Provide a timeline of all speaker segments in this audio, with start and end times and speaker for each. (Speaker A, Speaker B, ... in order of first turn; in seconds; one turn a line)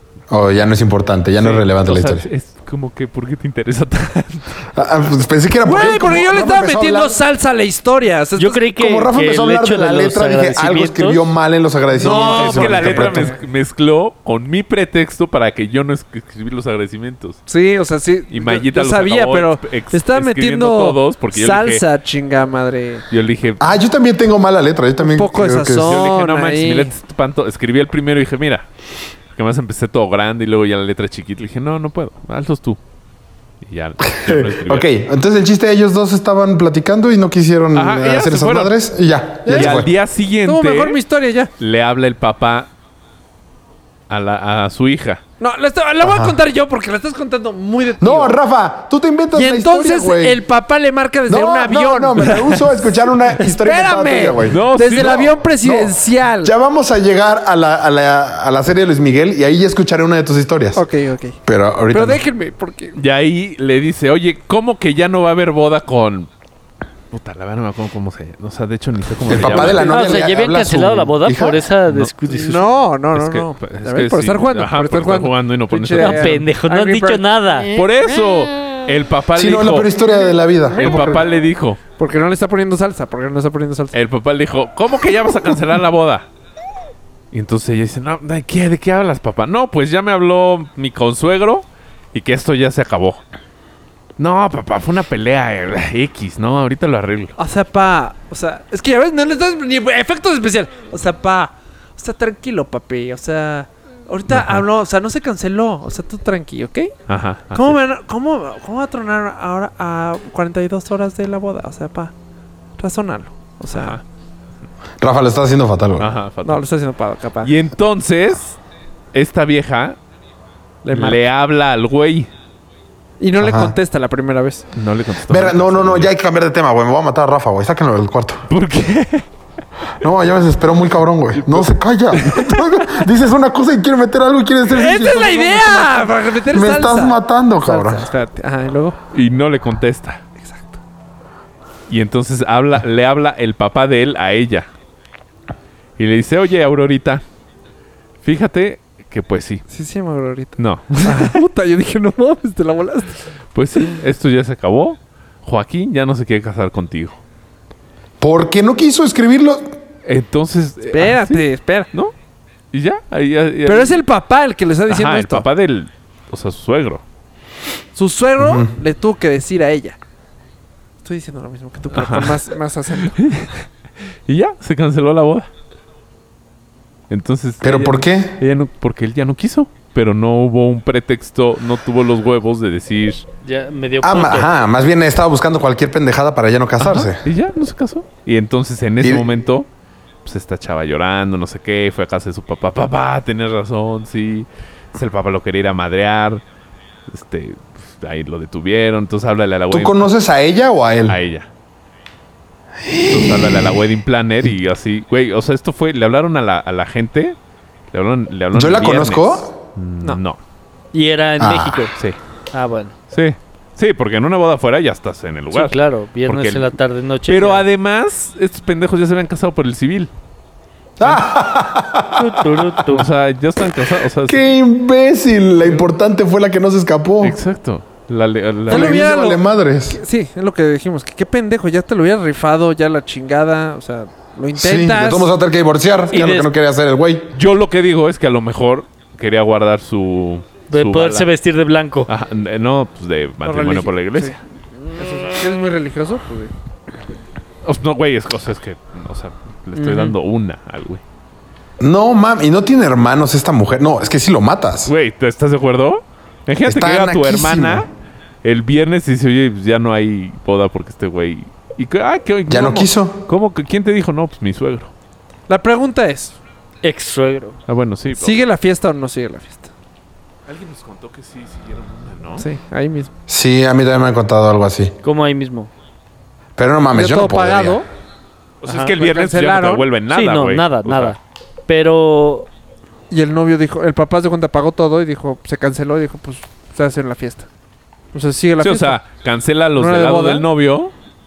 Speaker A: 0.3-2.3
Speaker B: 1.4-4.7
Speaker A: 4.7-7.2
Speaker C: 5.6-8.7
Speaker D: 8.3-11.2
Speaker A: 8.7-13.3
Speaker C: 11.9-13.4
Speaker B: 12.0-17.4
Speaker C: 17.5-23.0
Speaker B: 18.3-21.8
Speaker B: 23.1-23.7
Speaker A: 23.6-26.0
Speaker C: 25.0-26.9
Speaker B: 25.8-28.6
Speaker B: 29.3-32.8
Speaker B: 33.6-34.9
Speaker A: 34.1-39.9
Speaker B: 37.7-38.7
Speaker C: 39.5-39.8
Speaker B: 39.5-41.0
Speaker C: 40.4-41.5
Speaker B: 41.6-42.7
Speaker B: 44.1-45.2
Speaker C: 45.4-48.3
Speaker A: 46.0-46.4
Speaker A: 48.0-50.4
Speaker C: 49.3-56.5
Speaker A: 51.3-60.8
Speaker B: 54.5-55.4
Speaker C: 60.7-61.4
Speaker A: 61.5-62.2
Speaker C: 61.9-63.0
Speaker B: 63.0-66.3
Speaker B: 67.1-70.0
Speaker A: 69.2-71.6
Speaker C: 69.3-70.1
Speaker D: 69.8-72.6
Speaker B: 71.8-72.1
Speaker C: 72.3-78.8
Speaker B: 73.1-76.4
Speaker D: 75.9-77.7
Speaker B: 77.7-79.9
Speaker A: 79.3-81.2
Speaker C: 80.7-81.3
Speaker B: 80.8-81.8
Speaker C: 82.0-84.0
Speaker B: 83.9-86.3
Speaker B: 87.3-93.2
Speaker B: 94.2-97.4
Speaker C: 97.4-106.9
Speaker B: 104.3-104.6
Speaker B: 107.1-107.8
Speaker C: 107.5-112.1
Speaker C: 112.8-114.0
Speaker B: 113.7-114.0
Speaker A: 115.0-116.1
Speaker B: 116.0-116.6
Speaker C: 116.4-117.5
Speaker B: 117.4-118.6
Speaker B: 119.1-120.0
Speaker C: 120.8-121.2
Speaker B: 120.9-122.3
Speaker C: 123.2-124.7
Speaker A: 123.4-123.7
Speaker B: 124.7-126.1
Speaker A: 125.3-128.4
Speaker B: 128.5-129.2
Speaker A: 130.0-138.1
Speaker B: 131.3-133.0
Speaker C: 134.7-139.0
Speaker B: 139.1-140.2
Speaker C: 140.4-140.8
Speaker B: 141.9-144.7
Speaker B: 146.0-147.2
Speaker B: 148.2-149.6
Speaker C: 149.7-153.2
Speaker B: 150.6-151.4
Speaker B: 153.5-157.2
Speaker A: 158.2-159.8
Speaker B: 160.0-162.1
Speaker C: 160.9-161.9
Speaker B: 162.7-164.0
Speaker C: 163.7-165.4
Speaker B: 164.9-167.0
Speaker C: 167.9-170.0
Speaker A: 168.4-168.7
Speaker C: 171.0-173.2
Speaker B: 171.9-173.6
Speaker B: 174.3-175.5
Speaker B: 177.1-183.2
Speaker A: 177.6-178.4
Speaker D: 183.4-184.5
Speaker A: 184.0-187.2
Speaker B: 186.8-189.7
Speaker A: 189.0-189.3
Speaker B: 190.2-196.4
Speaker B: 197.1-200.1
Speaker A: 199.7-201.2
Speaker B: 201.1-201.5
Speaker A: 202.8-203.8
Speaker B: 203.1-207.3
Speaker B: 207.9-210.4
Speaker A: 208.5-209.5
Speaker D: 210.9-211.9
Speaker A: 211.4-211.8
Speaker D: 212.5-212.9
Speaker B: 213.1-215.7
Speaker D: 215.5-217.6
Speaker B: 216.2-216.7
Speaker B: 217.3-220.1
Speaker A: 221.0-222.8
Speaker D: 222.1-223.1
Speaker B: 222.9-224.5
Speaker A: 224.2-227.4
Speaker B: 227.2-229.1
Speaker A: 228.7-230.0
Speaker C: 228.7-235.3
Speaker A: 234.6-237.3
Speaker D: 236.1-236.5
Speaker B: 237.3-241.3
Speaker D: 240.7-242.1
Speaker B: 242.1-244.3
Speaker C: 243.4-246.5
Speaker B: 247.6-251.0
Speaker C: 249.8-250.1
Speaker A: 251.8-254.9
Speaker B: 254.8-257.9
Speaker A: 256.6-257.9
Speaker B: 258.4-264.9
Speaker A: 262.5-263.2
Speaker C: 265.5-266.4
Speaker D: 266.8-267.6
Speaker B: 267.7-268.4
Speaker C: 268.1-269.7
Speaker B: 270.5-272.5
Speaker C: 272.4-273.1
Speaker A: 273.3-274.9
Speaker D: 275.0-275.7
Speaker A: 276.6-277.8
Speaker C: 276.9-277.9
Speaker B: 278.6-281.1
Speaker C: 278.7-279.9
Speaker D: 280.1-282.5
Speaker C: 283.1-287.5
Speaker C: 288.1-289.0
Speaker B: 288.6-290.9
Speaker C: 289.8-290.4